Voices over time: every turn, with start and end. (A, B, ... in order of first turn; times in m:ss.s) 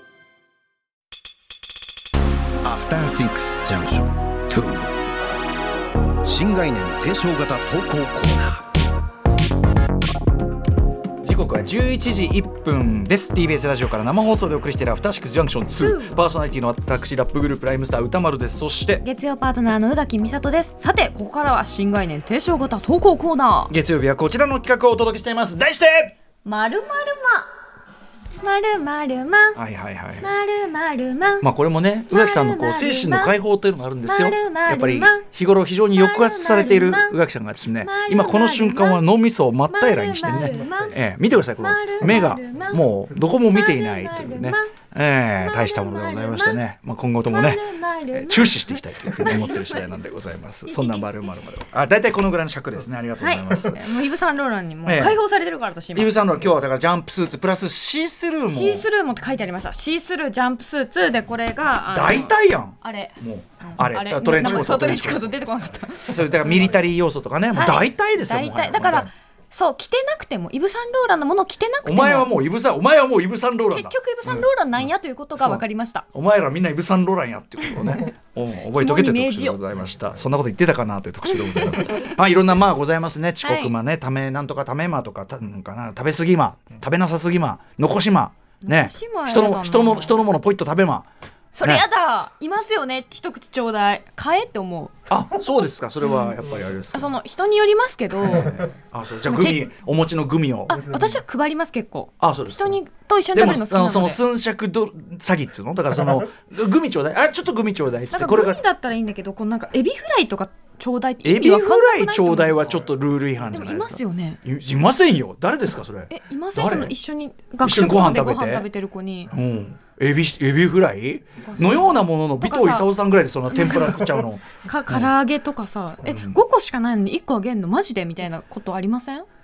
0:02.6-0:05.0 A
0:06.2-0:08.6 A
0:11.2-0:19.0 B
0:15.8-0:16.2 C
0:19.0-0:23.7 C
0:23.7-0:26.1 B
0:26.4-0:27.5 C
0:28.4-0:29.6 C
0:29.5-0:30.3 B
0:30.2-0:31.5 C
0:31.4-0:53.8 B
0:32.1-0:33.3 C
0:34.0-0:35.2 C
0:35.9-0:37.2 C
0:37.8-0:39.0 C
0:39.7-0:41.0 C
0:41.6-0:42.8 C
0:43.5-0:44.7 C
0:45.4-0:46.6 C
0:47.2-0:49.8 C
0:50.7-0:51.0 C
0:53.2-0:56.1 C
0:54.8-0:55.2 B
0:55.9-0:58.8 B
0:58.5-1:06.3 C
1:01.9-1:05.3 B
1:06.0-1:09.1 B
1:07.5-1:12.3 C
1:11.8-1:31.1 B
1:13.7-1:16.0 C
1:18.7-1:19.6 C
1:21.3-1:22.1 C
1:23.4-1:23.7 C
1:28.6-1:30.2 C
1:31.5-1:34.9 C
1:35.1-1:37.1 B
1:36.9-1:38.7 C
1:38.3-1:40.8 B
1:39.2-1:39.7 C
1:40.7-1:44.2 C
1:42.2-1:42.7 B
1:43.3-1:48.6 B
1:48.1-1:52.8 C
1:51.2-1:56.9 B
1:53.5-1:54.4 C
1:56.1-1:59.3 C
1:57.6-1:58.7 B
1:59.3-2:05.1 B
2:01.4-2:02.9 C
2:03.5-2:04.0 C
2:04.6-2:09.2 C
2:06.0-2:06.4 B